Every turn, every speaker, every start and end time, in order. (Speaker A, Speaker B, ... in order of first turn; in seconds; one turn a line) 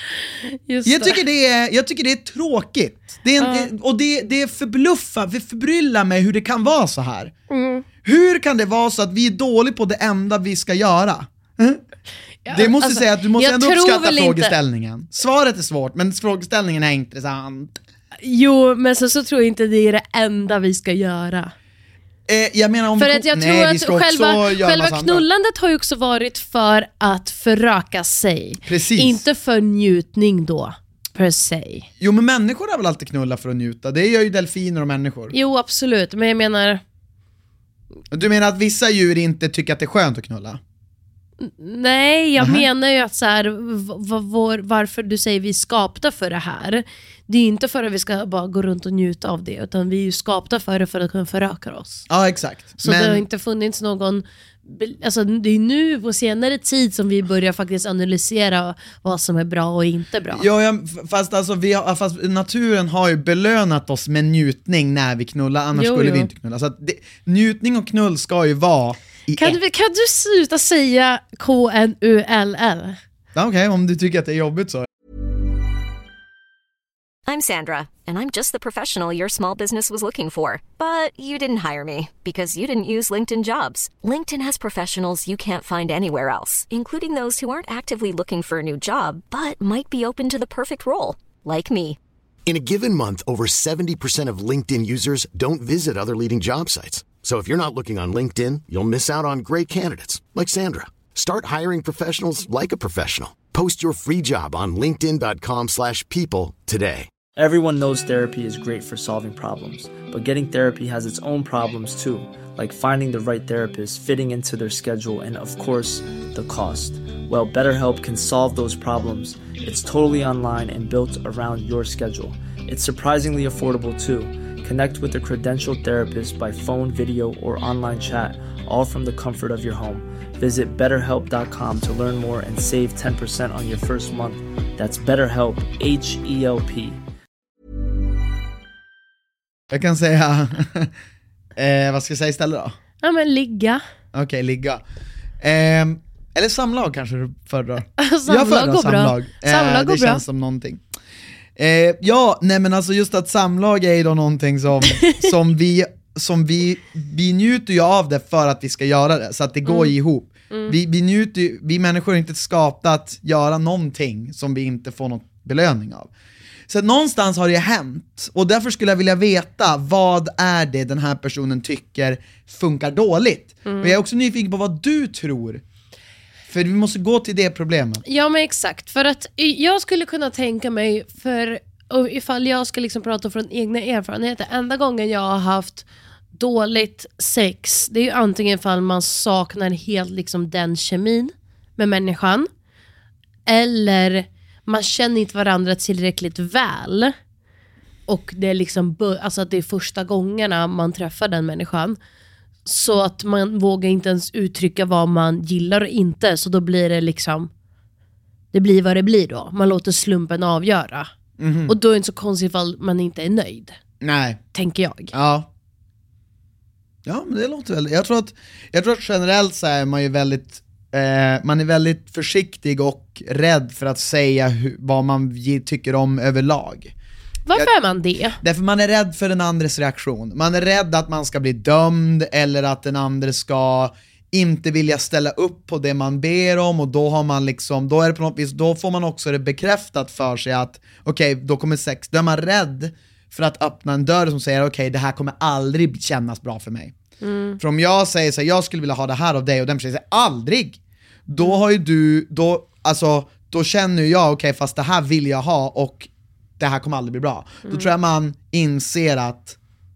Speaker A: 0.7-1.2
Speaker B: 0.8-7.3
Speaker A: 3.4-3.7
Speaker A: 7.5-7.8
Speaker B: 8.0-11.8
Speaker A: 12.4-14.5
Speaker B: 12.5-17.8
Speaker A: 18.2-21.5
Speaker B: 22.3-25.2
Speaker A: 23.0-31.9
Speaker B: 28.6-29.2
Speaker B: 32.0-35.3
Speaker A: 35.3-36.8
Speaker B: 38.1-40.6
Speaker A: 41.4-52.0
Speaker B: 42.4-42.6
Speaker B: 52.1-53.2
Speaker A: 52.8-60.5
Speaker B: 60.3-69.6
Speaker A: 65.7-66.3
Speaker A: 69.4-73.0
Speaker B: 73.3-74.9
Speaker C: 77.3-92.0
Speaker D: 92.5-107.1
Speaker E: 107.3-137.0
Speaker B: 139.7-140.9
Speaker B: 141.6-142.8
Speaker A: 143.0-143.8
Speaker B: 144.1-144.8
Speaker B: 145.4-150.8
Speaker A: 148.0-150.2
Speaker B: 151.6-166.1
Speaker A: 154.9-155.3
Speaker A: 159.7-159.9
Speaker B: 166.7-175.6
Speaker A: 173.6-174.0
Speaker B: 176.5-178.0
Speaker A: 178.0-192.5
Speaker A: 193.5-197.1
Speaker A: 198.1-202.0
Speaker A: 202.7-207.5
Speaker A: 208.5-211.1
Speaker B: 211.4-211.7
Speaker A: 211.7-213.8
Speaker B: 214.0-214.4
Speaker A: 214.5-215.1
Speaker B: 215.1-215.5
Speaker B: 217.0-226.9
Speaker A: 227.4-228.4
Speaker B: 228.4-246.9
Speaker A: 247.2-247.6
Speaker B: 247.6-259.6
Speaker A: 257.6-257.9